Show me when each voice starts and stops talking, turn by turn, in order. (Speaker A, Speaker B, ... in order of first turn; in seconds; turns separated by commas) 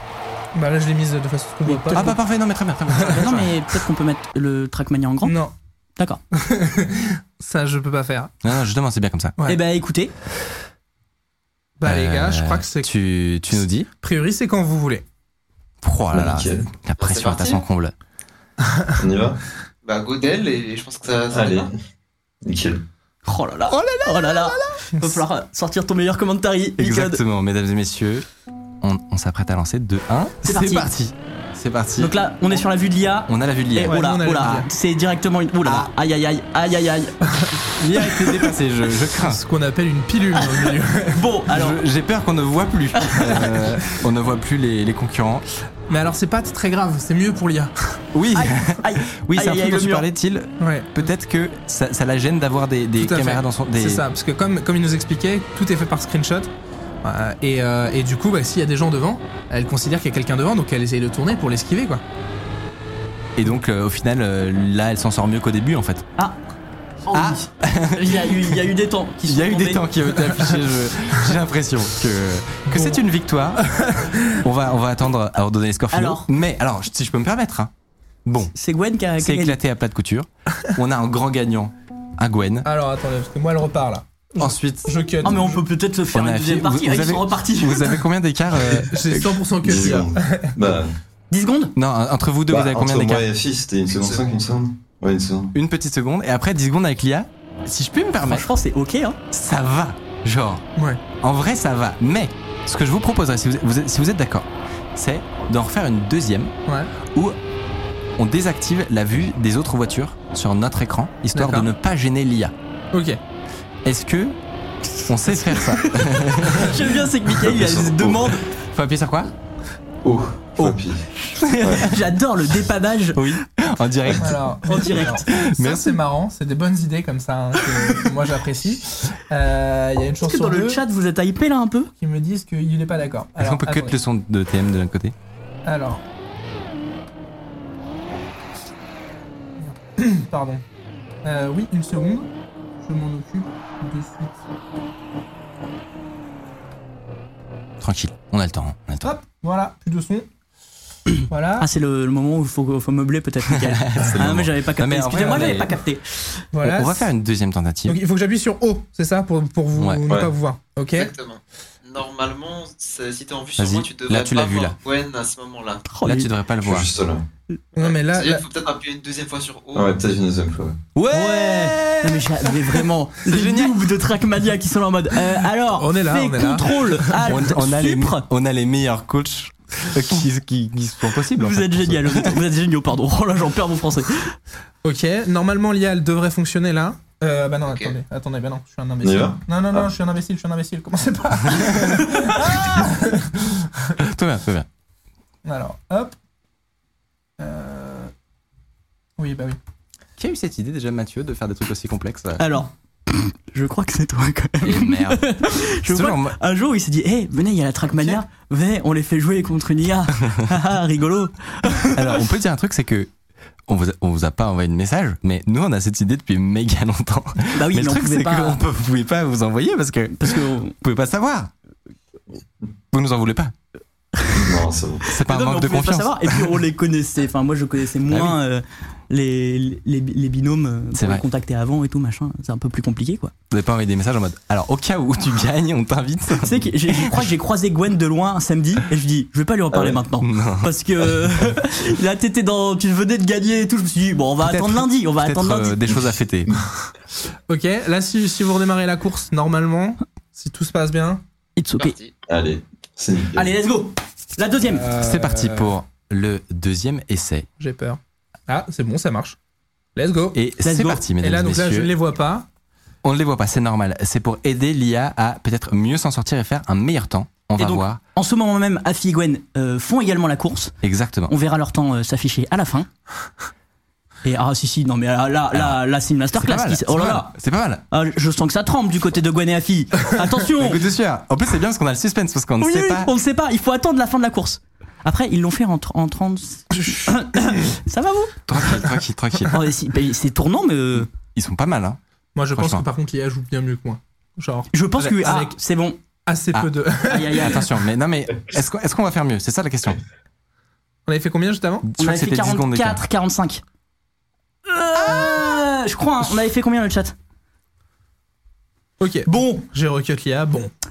Speaker A: 0.5-2.2, Speaker B: 1.6-2.1, Speaker C: 1.9-3.5, Speaker B: 3.0-5.4, Speaker A: 5.2-5.5, Speaker A: 6.4-8.3, Speaker C: 8.4-9.3, Speaker B: 9.4-10.1, Speaker A: 11.8-12.9, Speaker C: 11.8-13.9, Speaker A: 14.0-15.0, Speaker C: 15.8-17.9, Speaker D: 16.1-16.6, Speaker E: 17.0-17.6, Speaker D: 19.0-19.4, Speaker E: 19.8-21.7, Speaker D: 21.3-21.7, Speaker D: 22.4-22.8, Speaker B: 23.2-27.2, Speaker C: 23.7-24.6, Speaker C: 26.8-28.2, Speaker C: 28.8-32.1, Speaker B: 30.4-30.9, Speaker B: 32.0-37.5, Speaker C: 33.3-34.6, Speaker A: 33.8-34.7, Speaker C: 35.6-35.9, Speaker C: 37.8-39.4, Speaker B: 38.0-38.4, Speaker A: 39.2-41.2, Speaker B: 40.3-41.8, Speaker C: 41.5-45.5, Speaker B: 42.9-43.5, Speaker A: 45.9-48.0, Speaker C: 48.1-54.0, Speaker B: 48.3-50.1, Speaker A: 50.6-51.0, Speaker A: 53.0-56.5, Speaker A: 57.0-62.0, Speaker C: 63.4-66.1, Speaker B: 67.0-69.8, Speaker C: 67.1-68.6, Speaker C: 69.2-77.7, Speaker A: 72.7-73.0, Speaker A: 73.9-74.3, Speaker B: 75.9-76.3, Speaker C: 78.2-78.5, Speaker B: 78.5-79.5, Speaker C: 79.2-82.7, Speaker A: 82.6-85.6, Speaker C: 84.4-84.9, Speaker B: 85.2-88.0, Speaker C: 86.1-89.4, Speaker A: 88.7-90.5, Speaker D: 89.6-90.9, Speaker B: 91.3-91.7, Speaker C: 91.7-93.2, Speaker D: 92.5-95.5, Speaker E: 94.0-94.4, Speaker C: 95.5-98.5, Speaker B: 98.2-99.2, Speaker C: 99.3-100.7, Speaker A: 100.8-101.0, Speaker C: 101.2-106.5, Speaker C: 107.1-107.4, Speaker C: 108.2-112.5, Speaker A: 111.3-111.7, Speaker A: 112.9-113.2, Speaker C: 113.8-114.4, Speaker C: 115.0-116.8, Speaker B: 116.4-118.4, Speaker D: 117.4-118.3, Speaker C: 118.5-119.3, Speaker D: 120.0-121.0, Speaker C: 121.4-122.0, Speaker B: 121.7-123.3, Speaker C: 123.1-124.4, Speaker A: 124.2-130.8, Speaker B: 124.7-125.2, Speaker C: 125.2-126.0, Speaker B: 130.2-131.9, Speaker A: 132.0-133.9, Speaker C: 133.4-135.1, Speaker A: 135.7-136.0, Speaker A: 139.6-140.6, Speaker A: 141.2-142.3, Speaker A: 142.8-144.4, Speaker C: 147.8-149.1, Speaker A: 149.0-150.3, Speaker A: 151.3-151.7, Speaker B: 151.6-156.4, Speaker C: 153.5-155.8, Speaker A: 156.5-157.1, Speaker C: 156.6-158.0, Speaker A: 157.9-161.1, Speaker C: 159.8-160.1, Speaker D: 160.1-160.3, Speaker E: 160.9-165.8, Speaker C: 163.6-164.8, Speaker B: 165.9-166.3, Speaker C: 166.0-166.9, Speaker D: 166.6-167.2, Speaker A: 167.8-168.4, Speaker E: 167.8-170.0, Speaker D: 169.7-170.8, Speaker C: 170.9-173.8, Speaker B: 171.1-178.2, Speaker A: 175.7-177.2, Speaker C: 177.2-182.4, Speaker B: 181.4-184.4, Speaker A: 184.8-193.5, Speaker E: 187.7-187.9, Speaker D: 189.0-189.9, Speaker C: 191.5-192.9, Speaker C: 194.0-194.7, Speaker A: 195.4-196.1, Speaker A: 197.4-198.1, Speaker A: 199.2-199.6, Speaker C: 200.2-202.4, Speaker B: 202.4-212.2, Speaker C: 204.6-206.4, Speaker C: 211.9-213.1, Speaker C: 213.7-221.5, Speaker B: 217.5-218.6, Speaker B: 220.2-220.8, Speaker C: 222.9-223.5, Speaker B: 224.2-224.5, Speaker D: 224.3-225.1, Speaker C: 225.1-226.5, Speaker B: 225.2-233.3, Speaker C: 228.1-228.4, Speaker C: 230.9-231.2, Speaker C: 233.5-237.3, Speaker B: 236.4-245.9, Speaker C: 239.7-240.7, Speaker C: 244.4-246.5, Speaker A: 247.5-251.2, Speaker B: 251.6-251.9, Speaker E: 251.8-252.1, Speaker D: 252.3-253.5, Speaker B: 253.3-254.9, Speaker A: 254.7-255.7, Speaker C: 255.0-257.5, Speaker A: 257.6-259.4, Speaker A: 259.9-260.4, Speaker C: 260.3-261.9, Speaker B: 260.6-261.0, Speaker A: 261.2-262.5, Speaker C: 263.0-268.0, Speaker B: 267.6-270.7, Speaker C: 270.8-271.3, Speaker B: 271.3-272.9, Speaker B: 274.2-277.3, Speaker C: 275.5-275.8, Speaker C: 276.3-277.8, Speaker B: 277.9-280.8, Speaker C: 280.5-283.1, Speaker B: 282.6-288.4, Speaker C: 288.5-289.6, Speaker B: 289.5-291.1, Speaker C: 291.1-292.0, Speaker A: 292.4-295.5, Speaker C: 292.5-292.8, Speaker B: 294.7-296.0, Speaker C: 295.0-295.5, Speaker A: 296.2-297.6, Speaker B: 297.0-297.6, Speaker C: 297.3-300.0, Speaker A: 301.1-301.9, Speaker C: 301.9-303.0, Speaker B: 302.0-303.6, Speaker B: 304.7-307.1, Speaker C: 305.0-305.4, Speaker A: 309.0-310.7, Speaker B: 309.3-309.6